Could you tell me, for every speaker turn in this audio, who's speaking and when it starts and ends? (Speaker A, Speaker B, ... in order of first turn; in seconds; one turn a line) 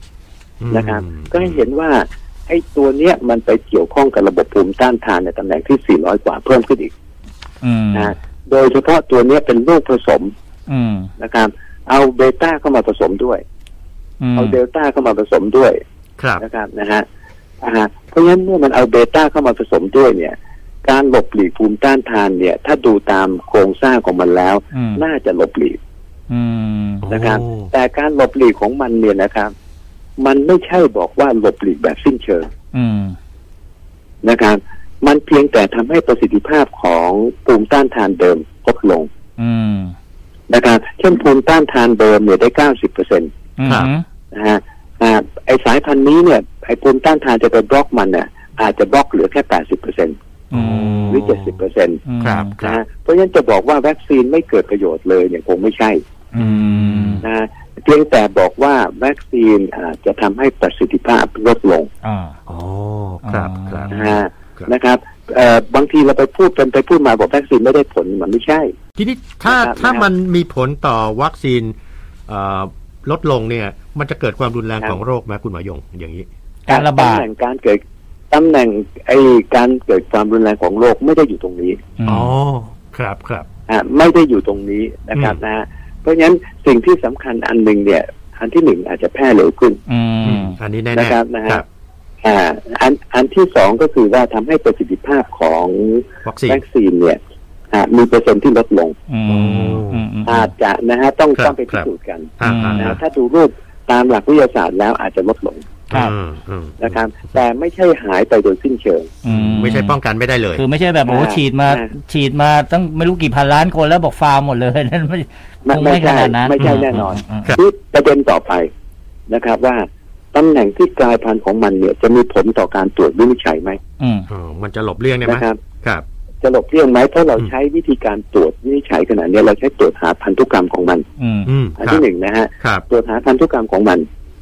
Speaker A: 0.6-1.6
Speaker B: 0.7-6.9
Speaker C: 7.6-8.1
Speaker B: 7.9-10.3
Speaker C: 10.7-11.1
Speaker B: 11.2-13.4
Speaker C: 14.2-14.6
Speaker B: 14.4-15.8
Speaker A: 16.2-16.4
Speaker B: 16.4-17.1
Speaker B: 17.6-25.8
Speaker C: 24.7-25.0
Speaker C: 26.3-27.1
Speaker A: 27.0-27.7
Speaker B: 27.1-29.5
Speaker B: 30.2-32.5
Speaker C: 32.7-33.2
Speaker B: 34.2-39.1
Speaker C: 39.4-40.0
Speaker B: 40.5-43.3
Speaker C: 43.6-44.0
Speaker A: 43.6-43.9
Speaker B: 44.3-50.2
Speaker C: 50.5-51.2
Speaker A: 50.5-51.5
Speaker B: 51.1-52.0
Speaker C: 52.1-52.5
Speaker A: 52.2-52.8
Speaker B: 52.6-56.0
Speaker C: 56.3-57.2
Speaker A: 56.4-57.3
Speaker B: 57.2-61.9
Speaker C: 62.0-62.4
Speaker A: 62.5-64.7
Speaker C: 63.2-64.1
Speaker B: 63.9-68.7
Speaker A: 69.0-71.8
Speaker B: 69.5-70.1
Speaker A: 72.3-76.3
Speaker C: 76.7-77.3
Speaker B: 76.7-81.8
Speaker C: 82.0-82.3
Speaker A: 82.1-83.5
Speaker B: 83.7-89.8
Speaker C: 89.9-90.6
Speaker A: 90.2-91.7
Speaker B: 90.9-91.6
Speaker B: 92.2-97.2
Speaker A: 96.2-96.6
Speaker B: 97.7-99.0
Speaker C: 99.1-100.5
Speaker A: 99.3-100.1
Speaker B: 100.3-105.7
Speaker A: 101.4-101.9
Speaker A: 102.4-103.0
Speaker C: 102.4-103.0
Speaker A: 105.9-107.0
Speaker B: 106.8-109.1
Speaker C: 109.2-110.0
Speaker A: 109.3-110.6
Speaker C: 110.5-117.6
Speaker B: 111.1-111.9
Speaker B: 115.7-118.7
Speaker A: 116.6-117.6
Speaker B: 119.3-123.8
Speaker C: 124.0-124.3
Speaker A: 124.3-126.0
Speaker B: 125.2-125.6
Speaker B: 126.4-131.1
Speaker C: 131.2-131.5
Speaker A: 131.5-132.1
Speaker B: 131.8-134.1